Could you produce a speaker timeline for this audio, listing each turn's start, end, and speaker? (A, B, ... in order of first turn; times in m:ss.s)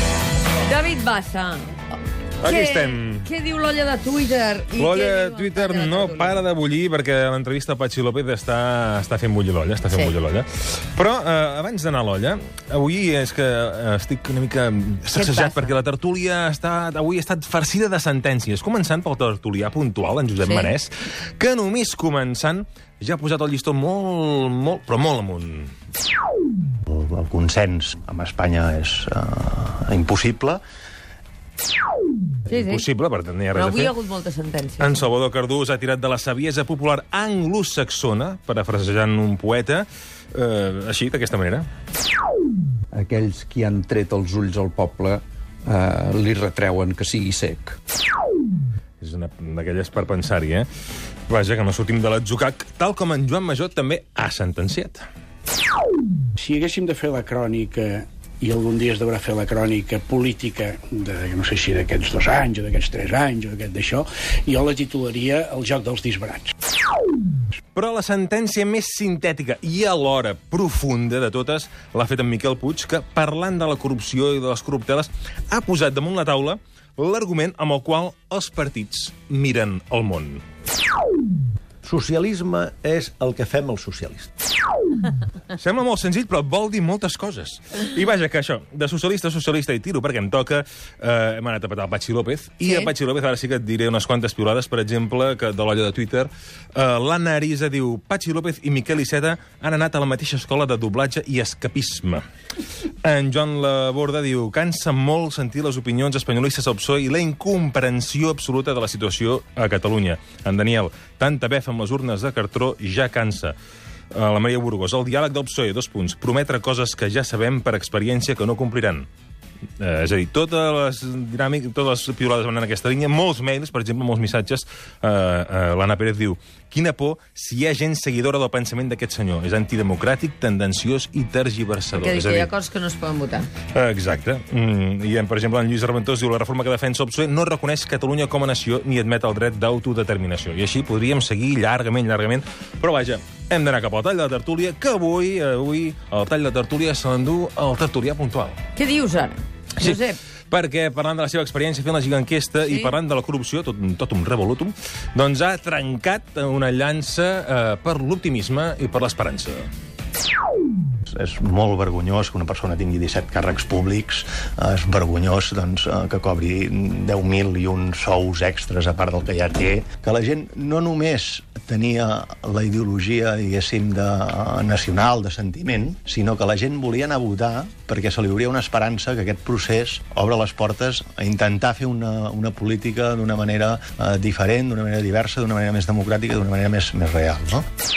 0:00.6-0:01.8 A
0:02.4-0:03.3 B
0:02.4-0:06.4 A
0:04.8-0:25.7 B
0:15.1-0:15.8 A
0:20.4-0:20.7 A
0:26.9-0:30.6 C
0:32.5-0:32.8 A
0:32.5-0:33.9 B
0:33.5-0:35.0 A
0:34.8-0:41.7 B
0:42.9-0:47.8 D
0:49.0-0:50.7 B
0:51.3-0:55.0 B
0:56.4-1:06.5 E
1:07.7-1:20.4 B
1:21.8-1:24.3 F
1:25.6-1:42.2 B
1:43.0-1:53.5 B
1:54.1-1:59.1 B
1:59.8-2:12.5 B
2:11.9-2:13.5 A
2:13.7-2:28.6 B
2:28.8-2:30.2 A
2:29.8-2:39.7 B
2:32.6-2:32.9 A
2:41.1-3:07.6 C